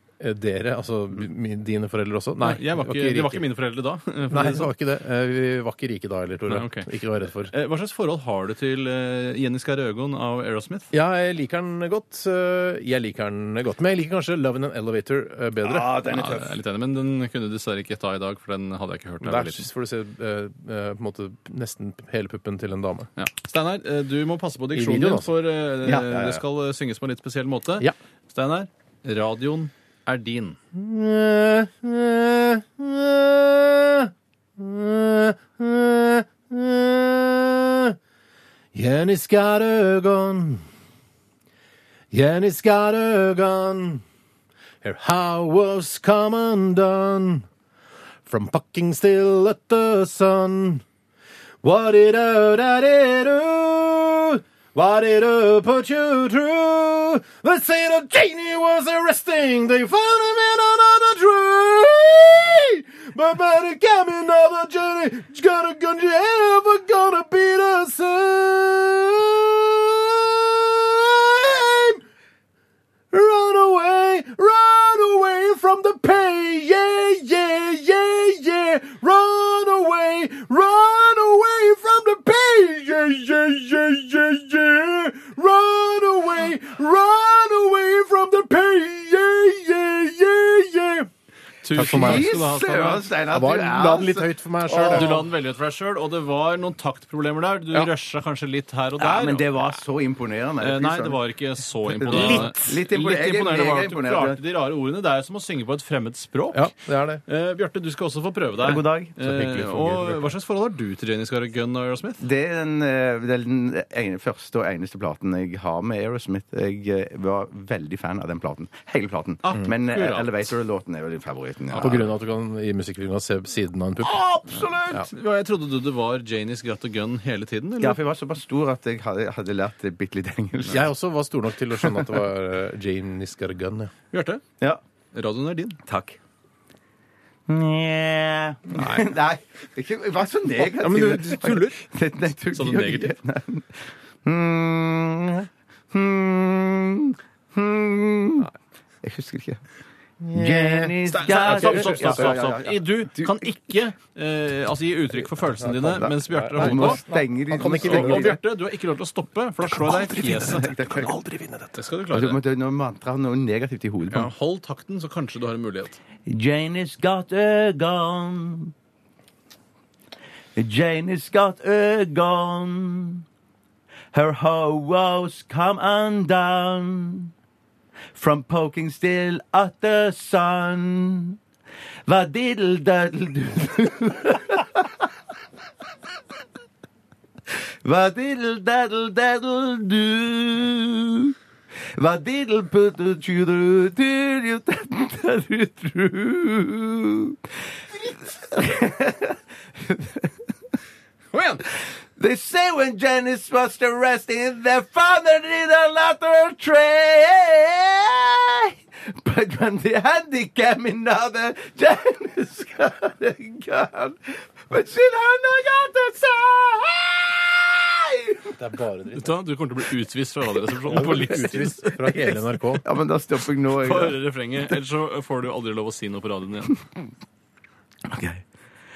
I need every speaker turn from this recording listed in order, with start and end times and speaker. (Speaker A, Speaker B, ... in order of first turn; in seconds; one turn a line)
Speaker A: 0.2-3.5
Speaker B: 2.4-4.7
Speaker A: 4.3-7.5
Speaker B: 6.5-6.9
Speaker B: 7.4-10.9
Speaker A: 10.9-15.9
Speaker C: 15.6-16.6
Speaker B: 16.1-19.7
Speaker A: 19.2-23.1
Speaker B: 23.2-30.6
Speaker A: 24.7-25.3
Speaker C: 25.8-26.4
Speaker A: 30.7-38.0
Speaker A: 38.7-40.6
Speaker A: 42.1-44.0
Speaker A: 44.8-47.5
Speaker A: 48.3-50.8
Speaker A: 51.6-72.0
Speaker A: 73.1-91.1
Speaker B: 91.6-93.1
Speaker A: 91.7-92.4
Speaker C: 91.8-95.2
Speaker A: 93.2-95.2
Speaker B: 94.7-99.5
Speaker C: 99.0-101.2
Speaker B: 100.6-106.7
Speaker C: 102.0-104.4
Speaker A: 102.1-102.8
Speaker A: 106.5-107.2
Speaker B: 107.2-112.2
Speaker C: 108.6-109.1
Speaker A: 109.2-110.3
Speaker C: 112.2-122.0
Speaker B: 119.4-120.5
Speaker B: 121.7-122.1
Speaker A: 121.8-124.2
Speaker C: 124.0-125.1
Speaker B: 124.5-128.0
Speaker C: 127.8-130.9
Speaker A: 130.7-133.9
Speaker B: 134.1-134.4
Speaker B: 135.1-135.8
Speaker C: 135.8-136.2
Speaker C: 137.5-148.5
Speaker A: 138.7-139.1
Speaker A: 140.8-141.8
Speaker B: 142.5-143.1
Speaker C: 149.0-149.6
Speaker A: 150.2-152.4
Speaker C: 150.3-153.4
Speaker B: 151.1-157.0
Speaker A: 155.3-158.4
Speaker C: 156.5-158.4
Speaker B: 157.8-160.7
Speaker A: 159.6-161.8
Speaker C: 160.6-161.1
Speaker B: 161.7-162.4
Speaker C: 162.1-164.3
Speaker B: 164.1-166.0
Speaker C: 166.3-168.7
Speaker C: 170.6-173.2
Speaker C: 174.1-177.3
Speaker C: 178.1-181.4
Speaker C: 182.1-185.1
Speaker C: 187.8-191.3
Speaker C: 191.9-197.4
Speaker C: 197.9-200.3
Speaker B: 201.3-201.6
Speaker C: 201.7-218.6
Speaker A: 218.5-219.3
Speaker B: 219.1-221.8
Speaker A: 220.9-222.8
Speaker C: 220.9-224.2
Speaker B: 223.8-226.8
Speaker C: 228.1-228.4